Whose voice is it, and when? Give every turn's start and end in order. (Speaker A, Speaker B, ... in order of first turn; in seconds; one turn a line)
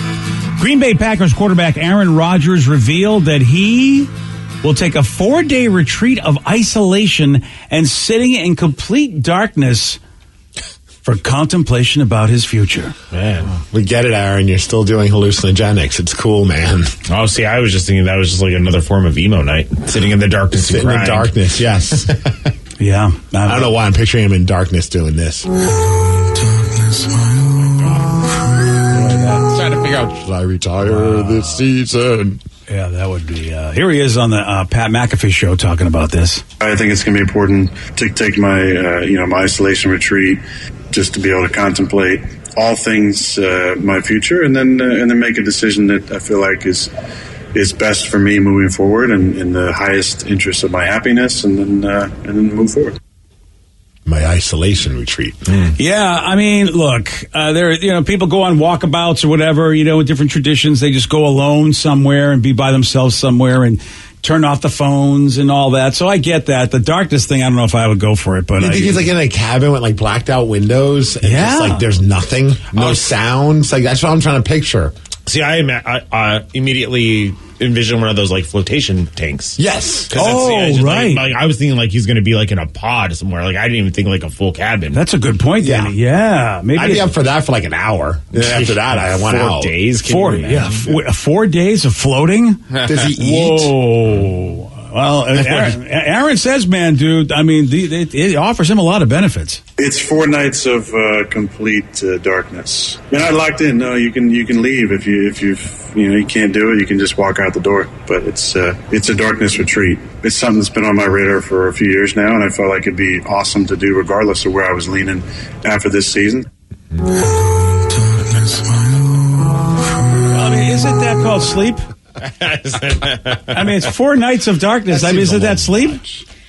Speaker A: 0.6-4.1
Speaker A: 4.6-10.0
Speaker A: 11.0-12.9
Speaker B: 13.1-13.6
Speaker C: 13.7-16.9
Speaker B: 17.1-21.4
Speaker C: 20.5-22.5
Speaker A: 22.8-23.7
Speaker C: 23.4-25.5
Speaker A: 26.2-28.0
Speaker C: 28.9-32.4
Speaker A: 30.8-31.7
Speaker A: 32.7-36.4
Speaker D: 36.6-46.9
Speaker D: 47.5-53.0
Speaker C: 54.0-55.6
Speaker A: 55.6-69.1
Speaker C: 68.6-74.9
Speaker A: 71.2-71.8
Speaker B: 72.8-73.1
Speaker B: 75.2-79.6
Speaker C: 79.6-80.1
Speaker B: 80.1-85.0
Speaker A: 80.1-81.3
Speaker A: 84.9-87.1
Speaker C: 85.6-85.9
Speaker C: 86.8-89.7
Speaker B: 88.3-90.9
Speaker A: 90.0-92.6
Speaker C: 92.8-93.7
Speaker A: 93.2-99.6
Speaker D: 99.8-116.5
Speaker A: 118.0-119.2
Speaker A: 120.1-121.8
Speaker B: 122.2-123.9
Speaker A: 123.5-126.2
Speaker C: 124.9-125.6